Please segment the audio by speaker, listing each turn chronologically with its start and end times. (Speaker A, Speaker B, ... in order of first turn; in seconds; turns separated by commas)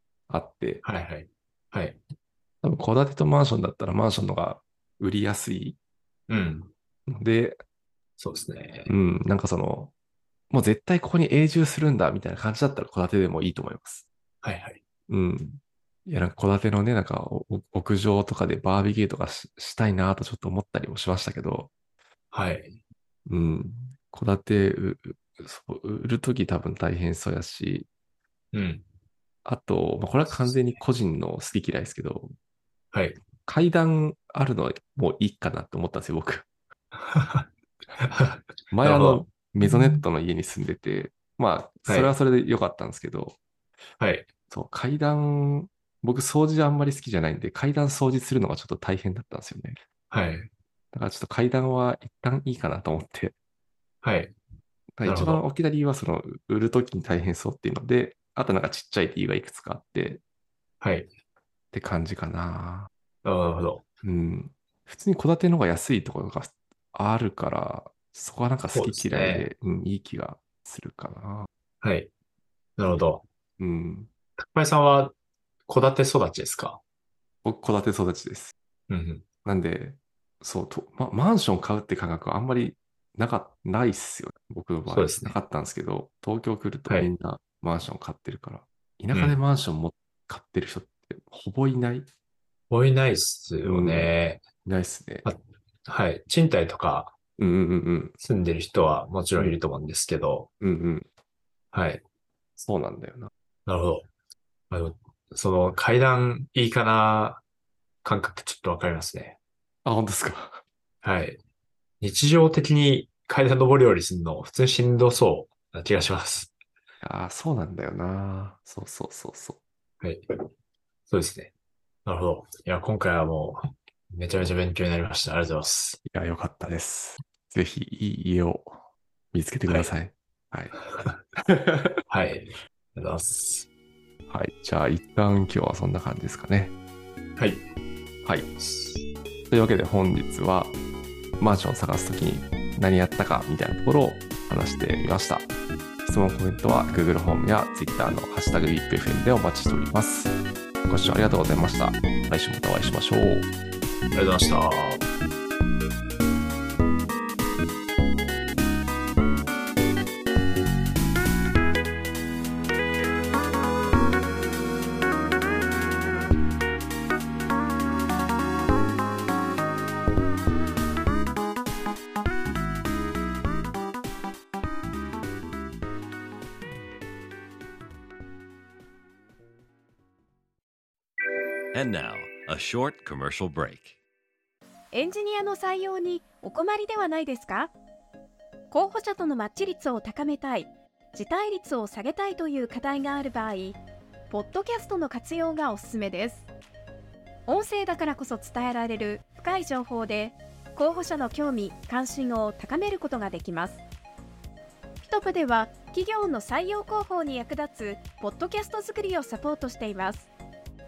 Speaker A: 0.3-0.8, Speaker B: 0.8-2.0, Speaker A: 2.6-5.8, Speaker B: 6.3-6.7, Speaker A: 7.1-7.6, Speaker B: 8.2-8.9, Speaker A: 8.9-9.9, Speaker A: 10.5-14.0, Speaker B: 14.4-14.8, Speaker A: 15.1-21.7, Speaker B: 22.3-22.8, Speaker A: 23.3-27.9, Speaker B: 28.5-28.8, Speaker A: 29.4-32.3, Speaker B: 32.9-33.2, Speaker A: 33.5-36.5, Speaker B: 36.9-39.2, Speaker A: 38.7-43.4, Speaker B: 41.9-42.1, Speaker B: 44.0-44.3, Speaker A: 44.5-49.8, Speaker B: 50.1-50.5, Speaker A: 50.9-53.4, Speaker B: 54.0-54.3, Speaker A: 55.0-60.2, Speaker B: 55.0-55.4, Speaker B: 60.8-61.1, Speaker A: 61.7-62.9, Speaker B: 63.2-63.8, Speaker A: 64.0-71.5, Speaker B: 68.7-69.5, Speaker B: 71.8-72.1, Speaker B: 72.8-73.2, Speaker A: 73.6-74.1, Speaker B: 74.4-75.2, Speaker B: 75.7-76.8, Speaker A: 77.4-78.5, Speaker B: 78.9-79.2, Speaker A: 79.5-92.1, Speaker B: 84.9-85.4, Speaker B: 92.7-94.4, Speaker A: 93.6-94.1, Speaker A: 94.6-95.3, Speaker B: 95.2-97.1, Speaker A: 97.4-98.1, Speaker B: 98.2-100.5, Speaker A: 100.6-101.1, Speaker B: 101.7-102.0, Speaker A: 102.6-103.3, Speaker B: 103.7-104.1, Speaker B: 104.7-107.4, Speaker B: 108.0-109.4, Speaker A: 109.8-110.6, Speaker B: 111.0-111.4, Speaker B: 112.0-116.5, Speaker A: 117.0-119.6, Speaker B: 121.1-121.5, Speaker B: 122.0-126.0, Speaker A: 126.0-128.8, Speaker A: 129.3-130.8, Speaker B: 130.9-131.2, Speaker A: 131.3-132.0, Speaker B: 132.1-133.7, Speaker A: 134.3-136.7, Speaker B: 137.4-137.6, Speaker B: 138.6-139.0, Speaker A: 139.5-140.8, Speaker A: 141.4-145.5, Speaker A: 146.1-150.3, Speaker A: 150.9-153.5, Speaker B: 154.1-155.0, Speaker C: 181.7-184.0, Speaker D: 184.9-187.7, Speaker D: 188.7-193.8, Speaker D: 194.3-196.4, Speaker D: 197.5-203.8, Speaker D: 205.0-210.3